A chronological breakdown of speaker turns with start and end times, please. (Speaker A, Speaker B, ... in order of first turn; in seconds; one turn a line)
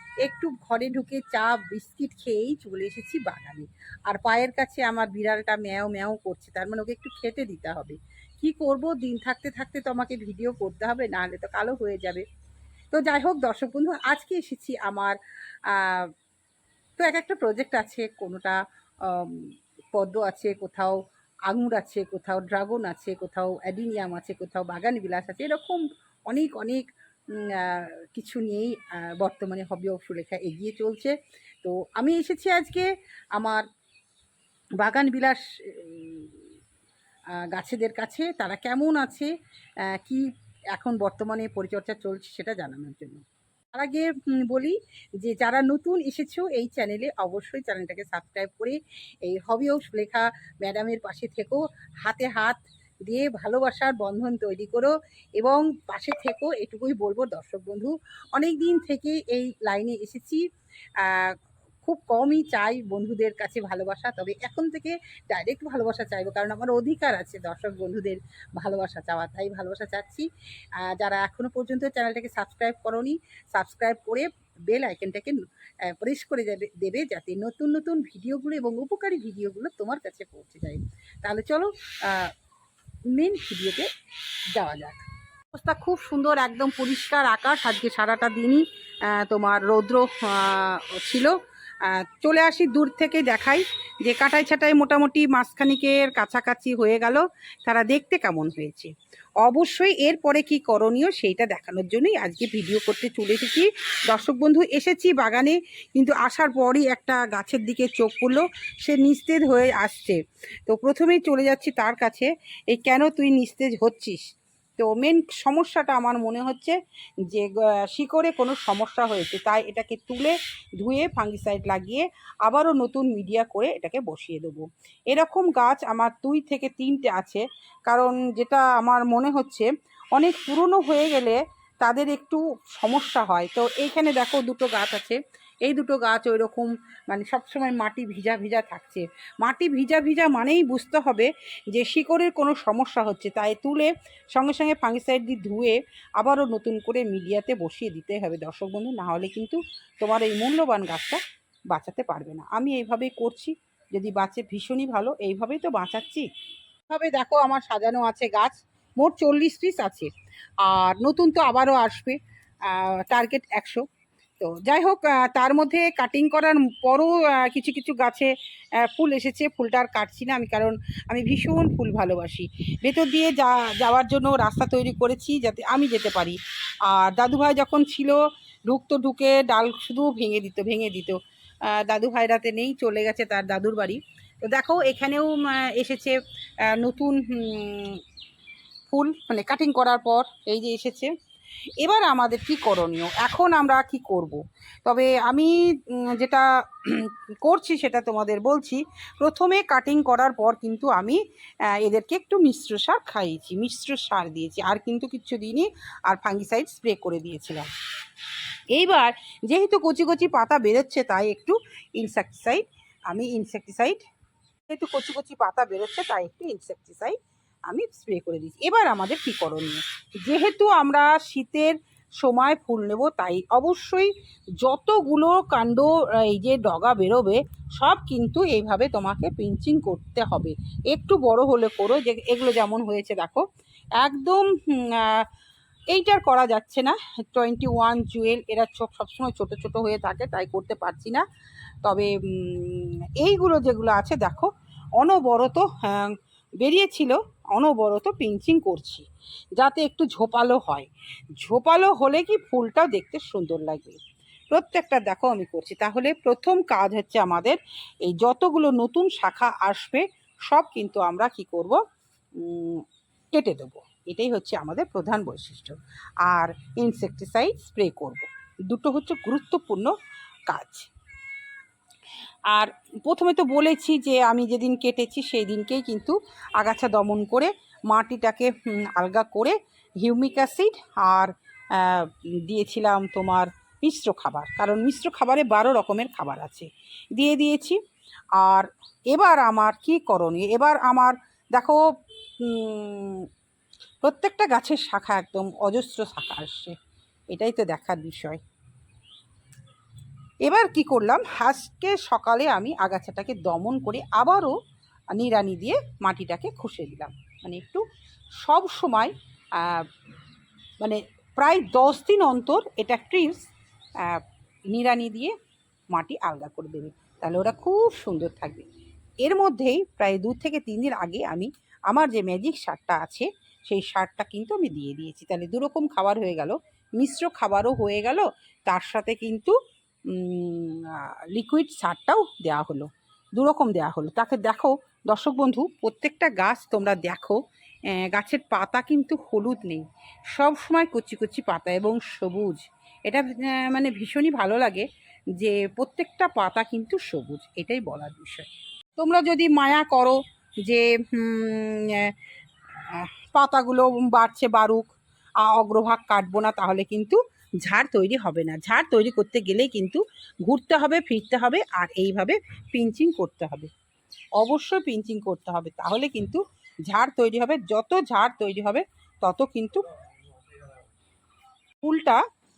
Speaker A: 0.2-12.2
Speaker A: 12.9-15.2
Speaker A: 15.7-16.1
Speaker A: 17.0-20.9
Speaker A: 21.5-26.8
Speaker A: 27.4-32.9
Speaker A: 33.4-33.6
Speaker A: 34.8-36.4
Speaker A: 37.5-39.3
Speaker A: 39.9-40.2
Speaker A: 40.7-43.2
Speaker A: 43.7-60.4
Speaker A: 61.0-70.2
Speaker A: 70.8-82.3
Speaker A: 83.1-83.9
Speaker A: 84.5-98.9
Speaker A: 99.4-114.2
Speaker A: 114.8-116.8
Speaker A: 117.3-151.2
Speaker A: 151.7-156.3
Speaker A: 156.9-160.1
Speaker A: 160.6-163.8
Speaker A: 164.4-168.3
Speaker A: 168.8-176.4
Speaker A: 176.9-178.2
Speaker A: 178.7-181.2
Speaker A: 181.7-186.2
Speaker A: 186.7-188.0
Speaker A: 188.9-191.1
Speaker A: 191.8-201.2
Speaker A: 201.8-207.7
Speaker A: 208.7-214.0
Speaker A: 214.7-217.2
Speaker A: 217.7-233.4
Speaker A: 234.0-235.2
Speaker A: 235.9-241.2
Speaker A: 241.8-249.1
Speaker A: 249.6-254.0
Speaker A: 254.5-261.8
Speaker A: 262.4-269.9
Speaker A: 270.5-270.9
Speaker A: 272.5-287.8
Speaker A: 288.4-291.8
Speaker A: 292.4-293.3
Speaker A: 294.0-296.7
Speaker A: 297.3-298.4
Speaker A: 300.4-304.5
Speaker A: 305.1-307.8
Speaker A: 308.4-309.9
Speaker A: 310.8-313.4
Speaker A: 314.0-315.3
Speaker A: 315.9-318.6
Speaker A: 319.2-329.6
Speaker A: 330.1-337.4
Speaker A: 338.0-339.8
Speaker A: 340.3-344.9
Speaker A: 345.4-352.1
Speaker A: 352.9-354.9
Speaker A: 355.4-363.7
Speaker A: 364.4-369.9
Speaker A: 371.8-372.2